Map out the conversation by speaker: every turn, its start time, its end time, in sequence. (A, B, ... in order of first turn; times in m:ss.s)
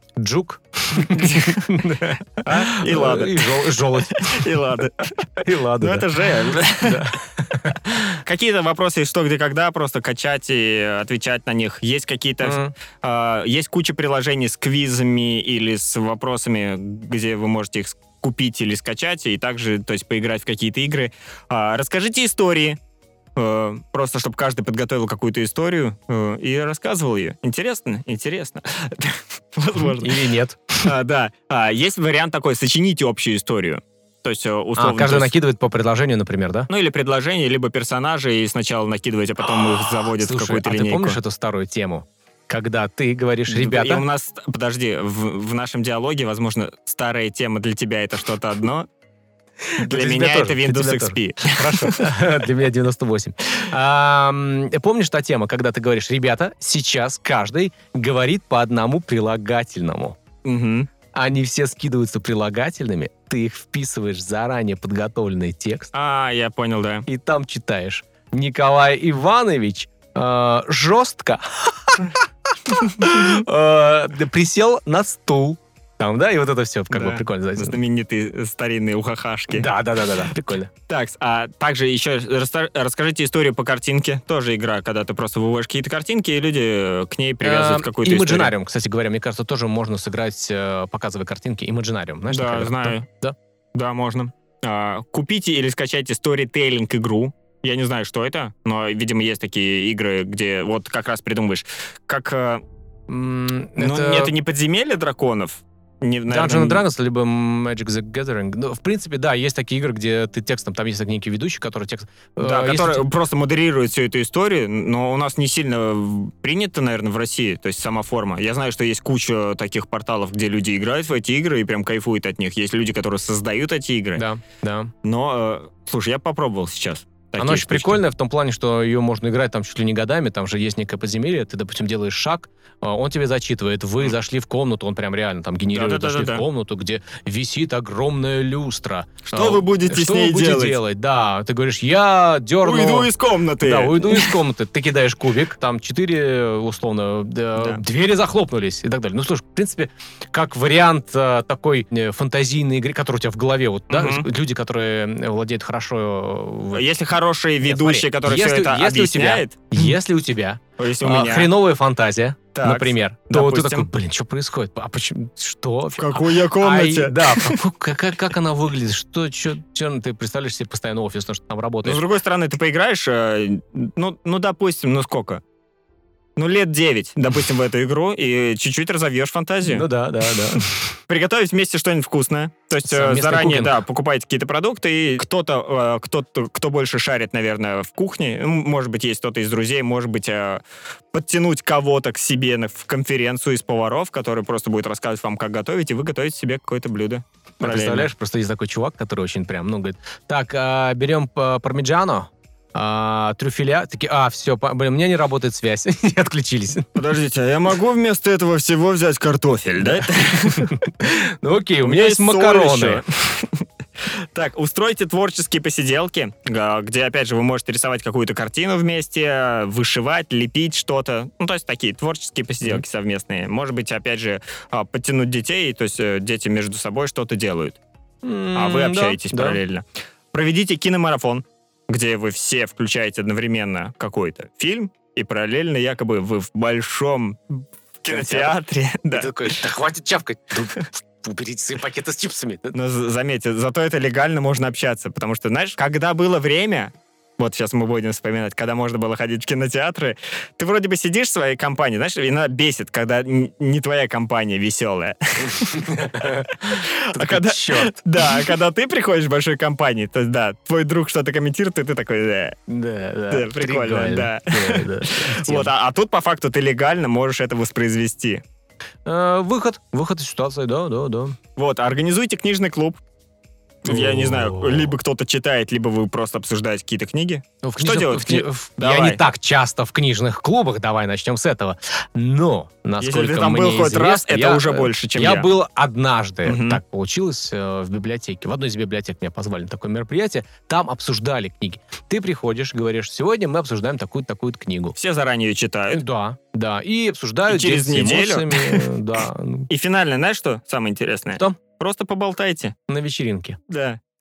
0:00.2-0:04.8 A
0:01.0-0:01.8 B
0:02.4-0:07.2 B
0:05.4-0:08.2 A
0:08.1-0:22.8 B
0:12.4-0:12.7 A
0:23.4-0:30.3 B
0:29.8-0:30.9 A
0:30.8-0:35.4 B
0:34.8-0:36.7 A
0:36.7-0:41.2 B
0:39.4-0:44.0 A
0:43.5-0:48.9 B
0:49.7-1:00.2 A
0:49.8-0:52.1 B
1:00.4-1:00.9 B
1:01.1-1:05.9 A
1:05.9-1:07.1 B
1:07.1-1:17.8 A
1:16.9-1:19.7 B
1:19.5-1:20.7 A
1:20.9-1:28.5 B
1:27.4-1:33.4 A
1:32.3-1:33.1 B
1:33.8-1:42.6 B
1:43.1-1:44.4 A
1:43.8-1:46.8 B
1:46.3-1:53.1 A
1:52.4-2:04.2 B
2:04.2-2:04.9 A
2:05.0-2:08.0 B
2:07.4-2:36.9 A
2:15.7-2:16.4 B
2:19.3-2:20.8 B
2:22.6-2:24.4 B
2:27.6-2:27.8 B
2:33.9-2:34.3 B
2:36.7-2:40.0 B
2:37.6-2:52.0 A
2:40.8-2:41.5 B
2:42.6-2:43.9 B
2:46.0-2:47.6 B
2:51.8-2:55.4 B
2:56.4-3:18.1 B
2:59.6-3:01.0 A
3:02.8-3:03.8 A
3:17.6-3:26.9 A
3:27.0-3:30.8 B
3:29.8-3:33.0 A
3:31.8-3:47.8 B
3:48.2-3:49.6 A
3:48.6-3:59.6 B
3:58.1-3:58.6 A
3:59.1-4:02.8 A
4:02.7-4:22.6 B
4:15.5-4:18.4 A
4:22.7-4:25.7 A
4:23.3-4:28.4 B
4:29.1-4:31.4 A
4:31.6-4:33.0 B
4:33.8-4:39.2 B
4:33.9-4:34.9 A
4:37.6-4:55.0 A
4:43.0-4:45.5 B
4:46.4-4:46.8 B
4:55.0-4:56.0 B
4:55.9-4:59.7 A
4:57.5-4:58.9 B
4:59.7-5:02.8 B
5:02.9-5:03.6 A
5:03.7-5:04.0 B